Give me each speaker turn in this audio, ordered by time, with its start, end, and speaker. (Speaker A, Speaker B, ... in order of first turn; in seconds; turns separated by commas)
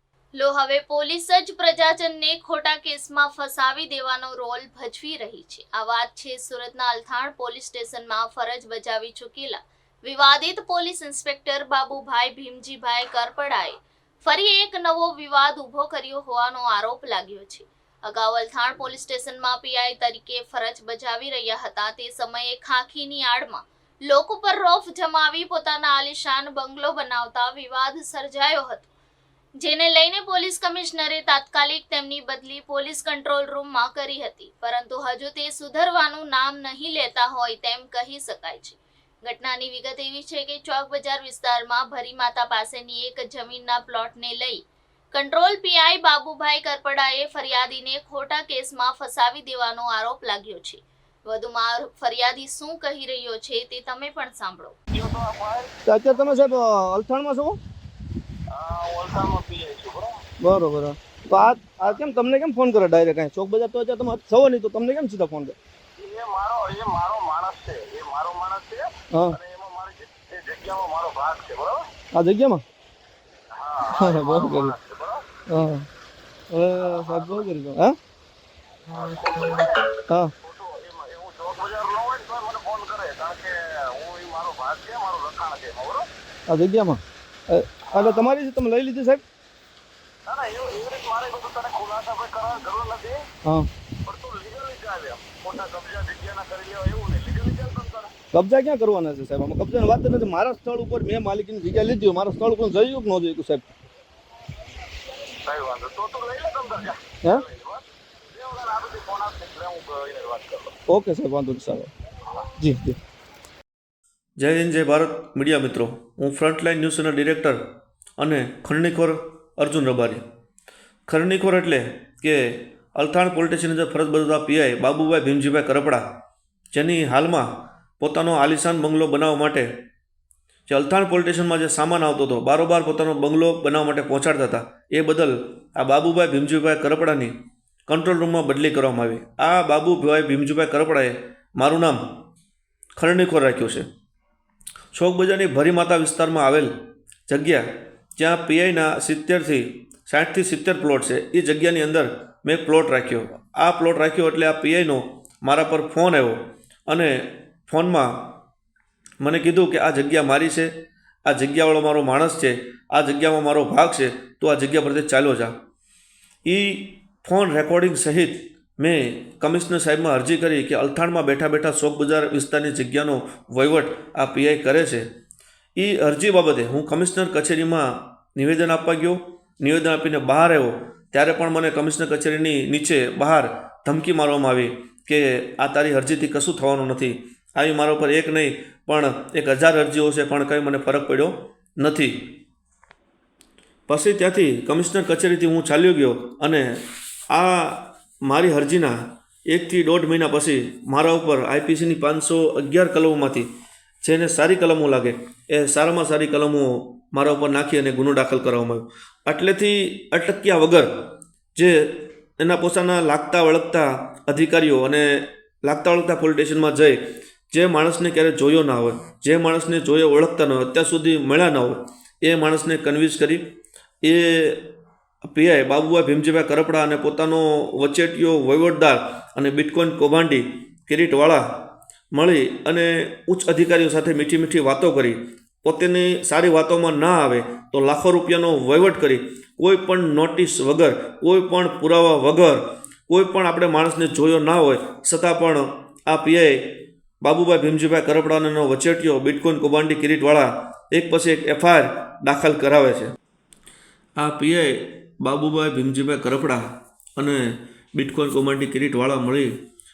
Speaker A: 0.4-28.9, Speaker A: 29.6-54.8, Speaker B: 54.9-55.7, Speaker C: 55.9-57.6, Speaker B: 58.5-60.2, Speaker C: 60.4-65.6, Speaker B: 66.0-71.8, Speaker C: 72.1-72.6, Speaker B: 73.5-75.2, Speaker C: 73.9-74.8, Speaker C: 75.5-75.9, Speaker C: 76.5-78.0, Speaker B: 76.8-77.4, Speaker B: 78.9-86.1, Speaker C: 86.5-89.2, Speaker B: 87.9-88.3, Speaker B: 90.3-93.2, Speaker B: 94.0-98.1, Speaker C: 98.3-103.7, Speaker B: 105.4-110.7, Speaker C: 110.9-111.9, Speaker C: 112.6-113.0, Speaker D: 114.4-117.6, Speaker D: 118.2-120.2, Speaker D: 121.1-126.0, Speaker D: 126.7-127.5, Speaker D: 128.0-129.7, Speaker D: 130.7-137.3, Speaker D: 137.9-142.0, Speaker D: 143.0-143.9, Speaker D: 144.9-146.7, Speaker D: 147.3-147.7, Speaker D: 148.2-158.3, Speaker D: 159.2-160.7, Speaker D: 161.3-165.6, Speaker D: 166.4-175.1, Speaker D: 175.8-192.1, Speaker D: 193.9-199.0, Speaker D: 199.5-203.5, Speaker D: 204.0-217.0, Speaker D: 217.5-223.4, Speaker D: 224.0-253.1, Speaker D: 254.2-256.6, Speaker D: 257.2-259.5